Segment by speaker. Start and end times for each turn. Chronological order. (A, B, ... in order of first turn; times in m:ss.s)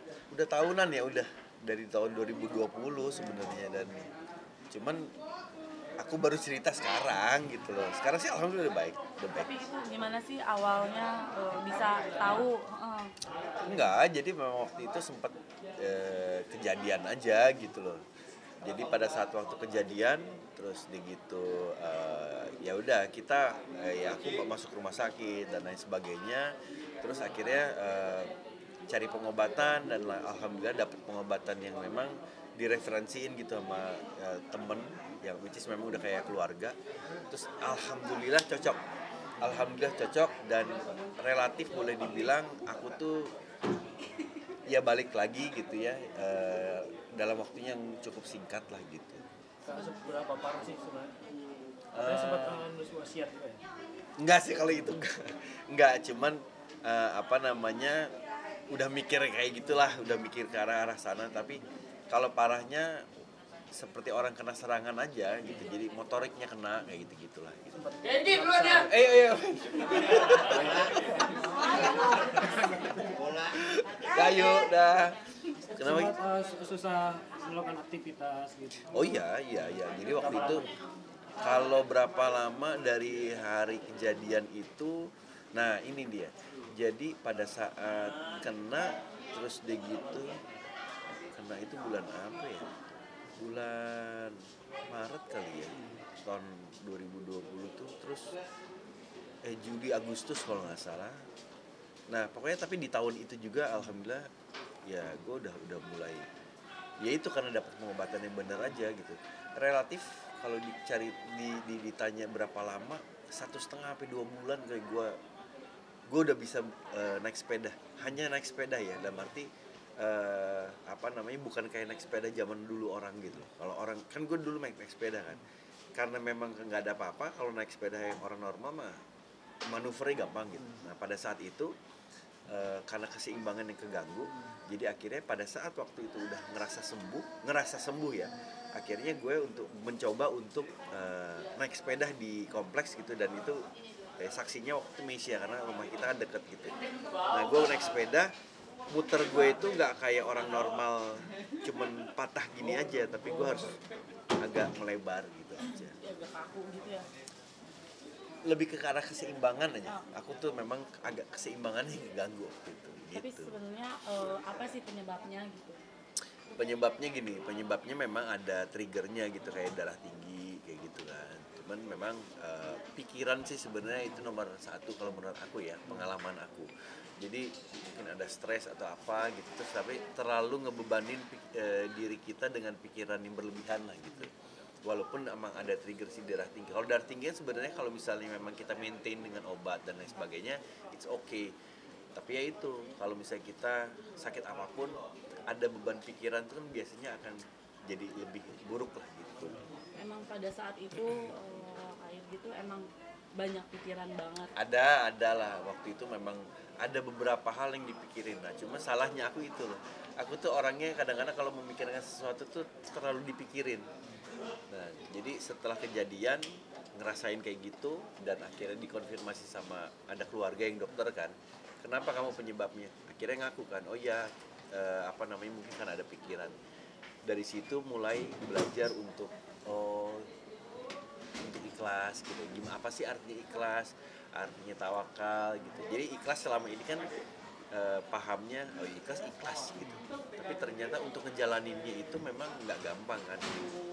0:00.3-0:04.1 A
0:04.7-0:05.1 A
0:06.0-0:09.6 A
0:09.3-0:13.1 B
0:13.6-0:18.0 A
0:18.6-0:28.3 A
0:28.9-0:36.8 A
0:37.3-0:38.8 A
0:39.4-0:43.3 A
0:44.7-0:49.2 A
0:49.6-0:51.2 C
0:51.9-0:52.6 A
0:51.9-0:53.6 C
0:54.2-0:58.1 A
0:58.7-1:03.0 A
1:03.7-1:15.2 A
1:07.8-1:09.0 C
1:15.7-1:16.2 A
1:15.7-1:18.9 C
1:18.9-1:20.6 A
1:20.1-1:20.8 C
1:21.4-1:25.0 A
1:25.5-1:30.4 A
1:31.3-1:32.6 A
1:33.4-1:34.4 A
1:34.9-1:38.3 A
1:39.4-1:41.2 A
1:42.1-1:44.2 A
1:44.9-1:46.2 A
1:47.0-1:55.1 A
1:56.1-2:05.4 A
2:05.9-2:09.0 A
2:09.7-2:11.7 A
2:12.5-2:23.6 A
2:24.2-2:26.8 A
2:27.3-2:28.3 A
2:28.9-2:33.8 A
2:34.4-2:36.0 A
2:36.0-2:37.1 B
2:38.4-2:43.6 A
2:43.1-2:45.8 B
2:46.6-3:04.3 A
3:04.8-3:11.5 A
3:12.1-3:15.0 A
3:15.5-3:19.6 A
3:20.0-3:24.5 B
3:24.6-3:33.9 A
3:34.7-3:36.4 A
3:37.0-3:46.5 A
3:47.2-3:50.3 A
3:51.4-3:57.1 A
3:57.7-4:03.7 A